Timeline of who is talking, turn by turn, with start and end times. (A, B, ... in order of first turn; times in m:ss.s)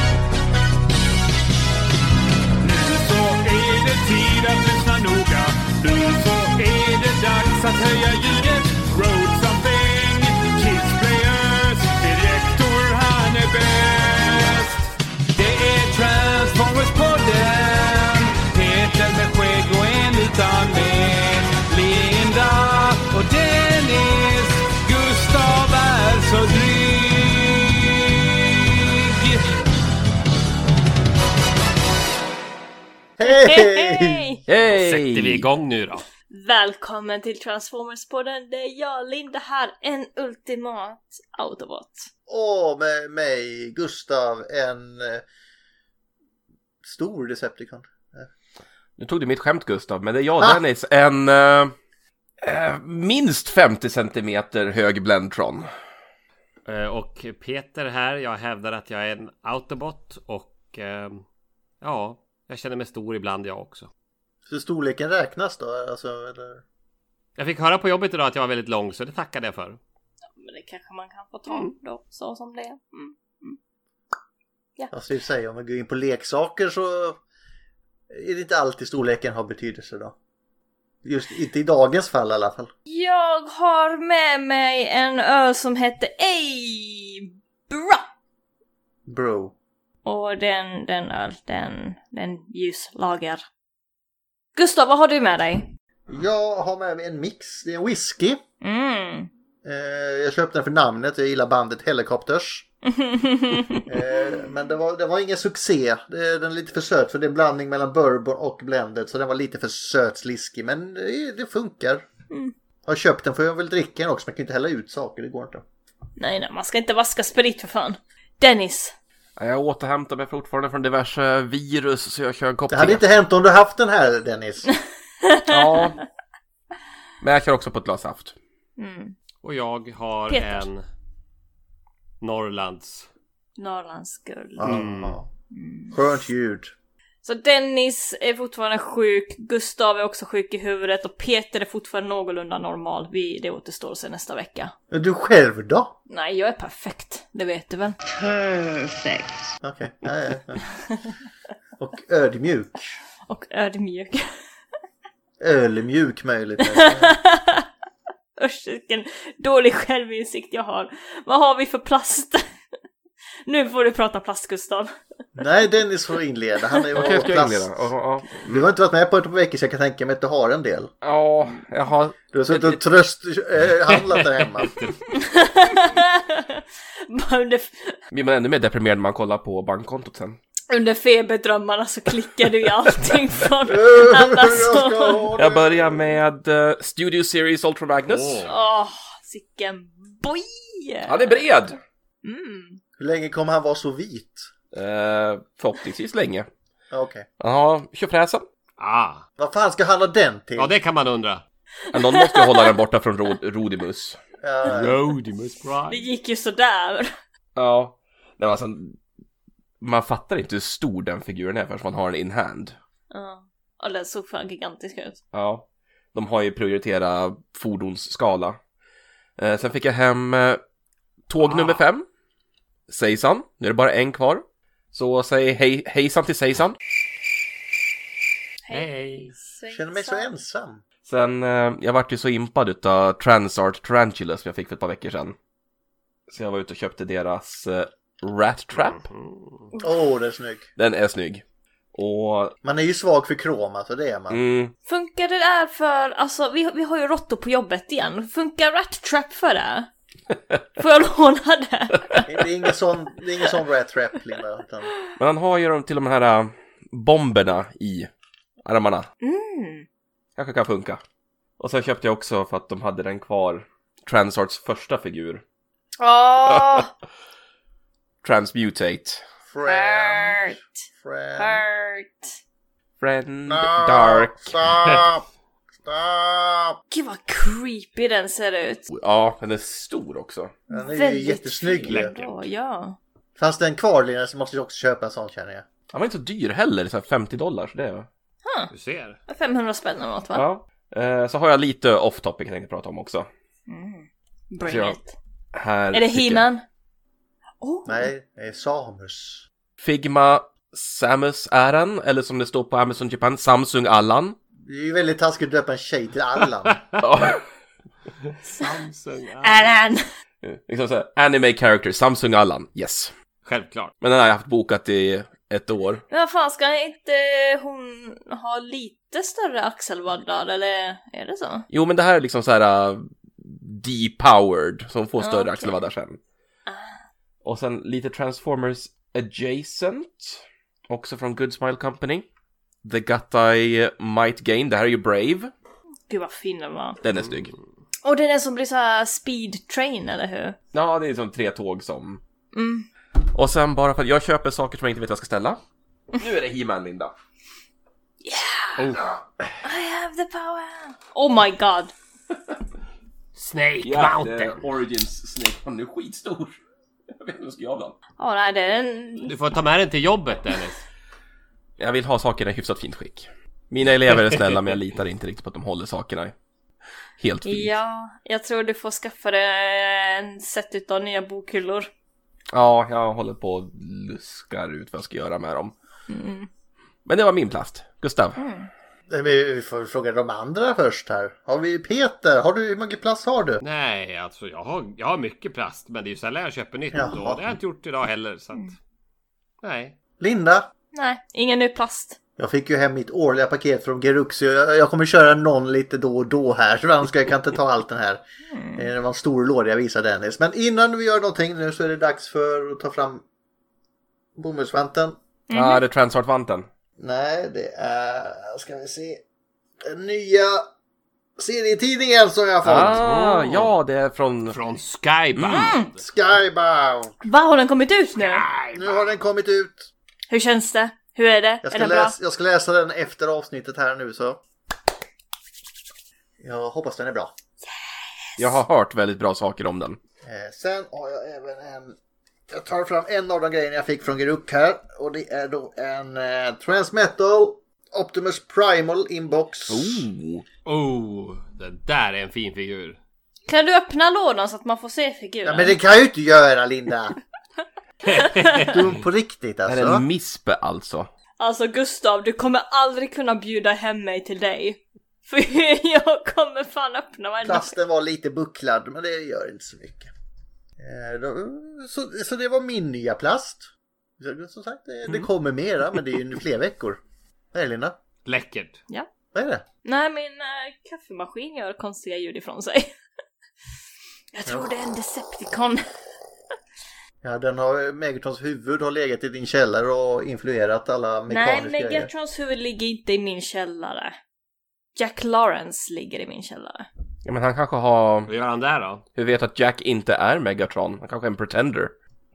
0:02.6-0:29.5 A
0:33.2-0:34.3 B
0:33.2-0:34.4 C
0:34.5-0:35.5 D
0:34.6-0:36.0 E
0:36.3-0:42.1 C
0:42.3-0:45.2 B
0:46.8-0:48.3 B
0:49.0-0:51.7 D
0:52.4-0:55.7 D
0:56.7-1:01.2 E
1:01.8-1:03.9 E
1:04.5-1:06.6 B
1:07.4-1:09.8 E
1:10.4-1:13.6 C
1:14.9-1:17.2 B
1:18.1-1:20.2 B
1:21.0-1:22.7 B
1:22.9-1:28.0 C
1:29.1-1:29.5 B
1:30.0-1:33.4 C
1:34.6-1:35.7 C
1:36.1-1:38.4 B
1:38.6-1:39.3 C
1:39.6-1:42.7 B
1:42.9-1:43.9 C
1:43.9-1:52.0 B
1:52.9-1:55.6 B
1:56.2-1:59.0 C
1:59.4-2:03.0 D
2:02.7-2:04.7 B
2:05.3-2:05.8 C
2:05.5-2:06.0 D
2:07.2-2:08.4 D
2:08.8-2:09.2 C
2:09.4-2:10.8 E
2:10.3-2:10.7 C
2:12.2-2:13.1 E
2:13.6-2:14.7 C
2:14.6-2:15.3 B
2:14.6-2:15.2 E
2:15.5-2:16.0 C
2:15.9-2:16.7 B
2:17.2-2:24.7 C
2:24.9-2:25.9 B
2:26.1-2:28.0 C
2:29.6-2:30.6 B
2:31.8-2:32.9 B
2:33.3-2:34.3 C
2:35.4-2:37.2 B
2:36.8-2:37.6 C
2:38.4-2:42.4 C
2:43.5-2:45.0 C
2:45.4-2:50.9 B
2:46.9-2:48.4 D
2:51.0-2:52.8 D
2:52.3-2:54.7 B
2:53.9-2:55.0 E
2:55.2-2:58.0 C
2:58.1-3:00.4 D
3:00.7-3:05.2 C
3:03.7-3:06.2 B
3:05.4-3:08.5 D
3:08.1-3:08.5 E
3:08.5-3:11.4 C
3:11.1-3:11.8 D
3:12.2-3:12.8 C
3:13.0-3:14.5 B
3:14.7-3:16.5 D
3:16.9-3:17.3 B
3:17.4-3:18.5 D
3:18.8-3:19.2 E
3:19.4-3:20.8 B
3:20.6-3:21.4 E
3:21.9-3:24.2 D
3:22.1-3:22.7 C
3:24.4-3:25.0 B
3:24.6-3:26.0 E
3:25.9-3:27.2 C
3:27.6-3:29.0 D
3:29.8-3:32.8 D
3:33.1-3:35.2 C
3:35.3-3:38.6 D
3:39.4-3:40.6 D
3:41.3-3:42.0 D
3:41.4-3:41.8 E
3:42.9-3:46.8 D
3:48.7-3:50.4 C
3:48.7-3:49.3 E
3:49.7-3:50.8 B
3:51.0-3:55.4 D
3:56.3-3:59.0 D
3:58.7-3:59.7 E
3:59.8-4:00.7 B
4:00.8-4:02.6 D
4:02.6-4:04.4 B
4:04.3-4:04.7 D
4:04.9-4:09.9 C
4:10.8-4:12.3 C
4:12.3-4:14.9 B
4:15.2-4:18.1 D
4:18.6-4:19.1 D
4:19.2-4:19.9 C
4:20.4-4:21.0 D
4:21.6-4:25.4 D
4:26.0-4:26.9 C
4:26.5-4:26.8 D
4:28.2-4:29.2 D
4:29.5-4:31.6 B
4:29.7-4:30.6 C
4:31.4-4:32.3 C
4:33.0-4:34.6 D
4:33.5-4:35.2 B
4:35.8-4:36.8 B
4:36.9-4:38.8 C
4:38.9-4:40.6 D
4:40.7-4:42.2 B
4:40.7-4:43.0 C
4:43.4-4:45.7 B
4:45.9-4:48.1 D
4:48.4-4:48.7 C
4:48.7-4:49.2 E
4:49.3-4:50.4 C
4:50.3-4:53.3 D
4:53.7-4:55.2 C
4:54.6-4:55.0 D
4:55.5-4:56.4 D
4:55.9-4:56.6 C
4:57.6-4:58.1 C
4:57.9-4:59.5 B
4:59.8-5:04.4 D
5:04.6-5:06.8 B
5:07.0-5:07.4 D
5:08.4-5:09.7 E
5:09.4-5:10.0 C
5:10.4-5:13.1 D
5:13.5-5:13.9 E
5:14.0-5:16.0 D
5:16.1-5:21.7 C
5:21.7-5:26.2 D
5:25.2-5:25.8 C
5:26.7-5:27.0 C
5:27.4-5:32.3 D
5:32.8-5:35.5 D
5:36.1-5:37.0 C
5:37.0-5:37.5 D
5:37.1-5:37.4 E
5:38.0-5:40.6 C
5:40.7-5:42.2 D
5:42.5-5:42.9 C
5:43.3-5:45.6 D
5:46.2-5:47.1 D
5:48.2-5:48.8 C
5:48.8-5:49.2 E
5:49.6-5:51.9 C
5:53.4-5:54.6 E
5:53.8-5:56.6 D
5:57.1-5:58.0 D
5:58.2-5:59.3 C
5:59.2-6:00.8 E
6:01.8-6:06.3 D
6:04.2-6:04.6 E
6:07.2-6:07.7 D
6:07.4-6:11.9 C
6:12.5-6:15.7 D
6:16.1-6:16.5 C
6:17.0-6:18.4 D
6:18.4-6:18.7 C
6:19.1-6:23.6 B
6:23.6-6:28.8 E
6:26.9-6:27.6 B
6:29.6-6:30.0 E
6:30.2-6:30.7 B
6:30.9-6:32.2 C
6:32.4-6:38.2 B
6:38.5-6:38.9 C
6:38.8-6:43.2 B
6:44.4-6:45.2 B
6:45.5-6:45.8 C
6:45.5-6:46.7 D
6:47.0-6:49.2 B
6:49.8-6:50.7 B
6:51.4-6:53.0 B
6:52.6-6:54.6 D
6:52.9-6:53.7 E
6:54.5-6:56.0 E
6:55.4-6:55.6 D
6:55.5-6:55.9 C
6:56.0-6:57.2 B
6:57.2-6:58.4 C
6:58.2-6:59.2 E
6:58.7-6:59.9 B
7:00.3-7:02.2 C
7:01.6-7:04.4 B
7:06.4-7:07.3 B
7:08.3-7:08.6 C
7:08.4-7:10.0 D
7:10.2-7:12.0 B
7:12.5-7:20.1 B
7:19.7-7:20.5 D
7:20.7-7:23.0 E
7:23.5-7:25.8 C
7:25.4-7:27.2 B
7:28.1-7:28.7 E
7:28.6-7:30.0 B
7:29.7-7:31.1 D
7:31.4-7:37.8 C
7:37.4-7:40.1 B
7:40.8-7:43.7 B
7:44.2-7:47.0 B
7:47.5-7:48.0 B
7:48.3-7:48.8 E
7:49.3-7:49.6 B
7:49.8-7:52.9 C
7:54.3-7:55.8 C
7:54.5-7:54.7 B
7:57.2-8:02.1 B
8:01.3-8:04.2 C
8:05.0-8:06.9 C
8:07.2-8:08.3 D
8:08.3-8:09.0 E
8:09.2-8:12.0 D